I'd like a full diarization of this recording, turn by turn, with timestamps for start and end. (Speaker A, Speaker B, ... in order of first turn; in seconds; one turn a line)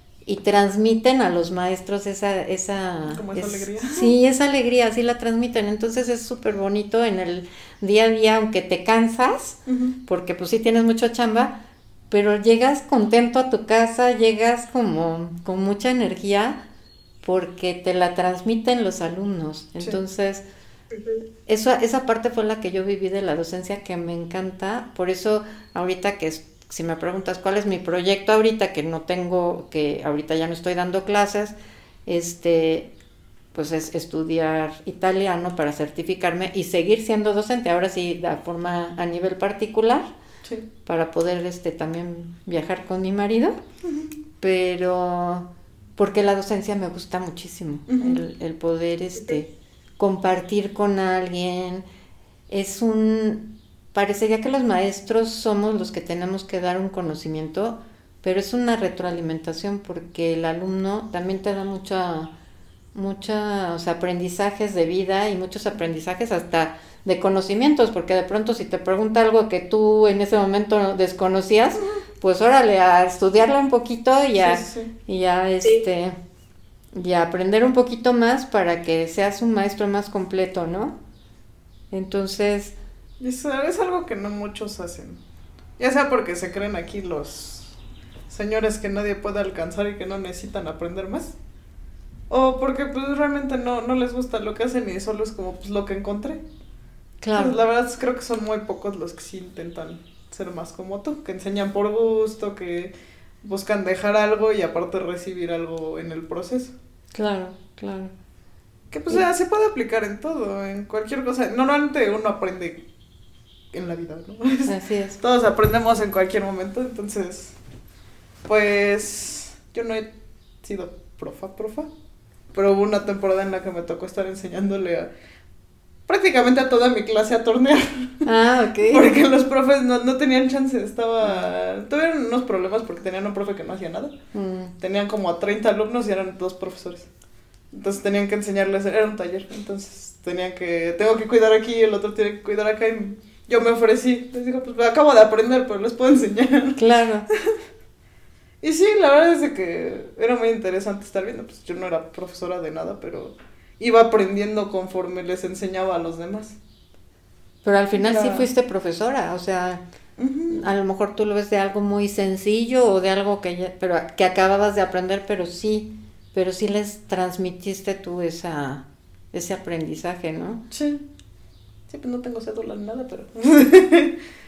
Speaker A: 0.2-11.5
Speaker B: 3.1-4.1
Speaker B: 9.7-9.9
Speaker A: 12.1-16.6
Speaker A: 17.2-20.4
Speaker A: 21.5-32.9
Speaker A: 33.5-40.1
Speaker A: 40.9-43.5
Speaker B: 43.8-44.1
Speaker A: 44.4-51.8
Speaker B: 47.9-48.2
Speaker A: 52.5-62.3
Speaker A: 62.9-76.1
Speaker B: 74.4-74.9
Speaker A: 76.9-81.0
Speaker A: 81.9-82.8
Speaker B: 83.2-85.2
Speaker B: 85.8-87.7
Speaker B: 88.3-91.3
Speaker B: 92.3-96.4
Speaker A: 97.2-97.6
Speaker B: 97.3-106.7
Speaker A: 107.1-108.1
Speaker B: 108.9-112.8
Speaker B: 113.7-117.5
Speaker A: 114.7-115.2
Speaker B: 118.4-120.1
Speaker B: 120.6-121.9
Speaker B: 122.5-125.1
Speaker B: 126.1-128.2
Speaker A: 128.2-129.1
Speaker B: 128.8-134.1
Speaker A: 131.2-131.5
Speaker A: 134.3-134.7
Speaker B: 134.8-137.1
Speaker B: 137.7-146.8
Speaker A: 146.8-147.3
Speaker B: 148.6-156.6
Speaker A: 157.6-159.8
Speaker B: 158.0-158.5
Speaker B: 160.2-160.6
Speaker A: 160.5-170.6
Speaker B: 170.7-171.0
Speaker B: 171.9-174.1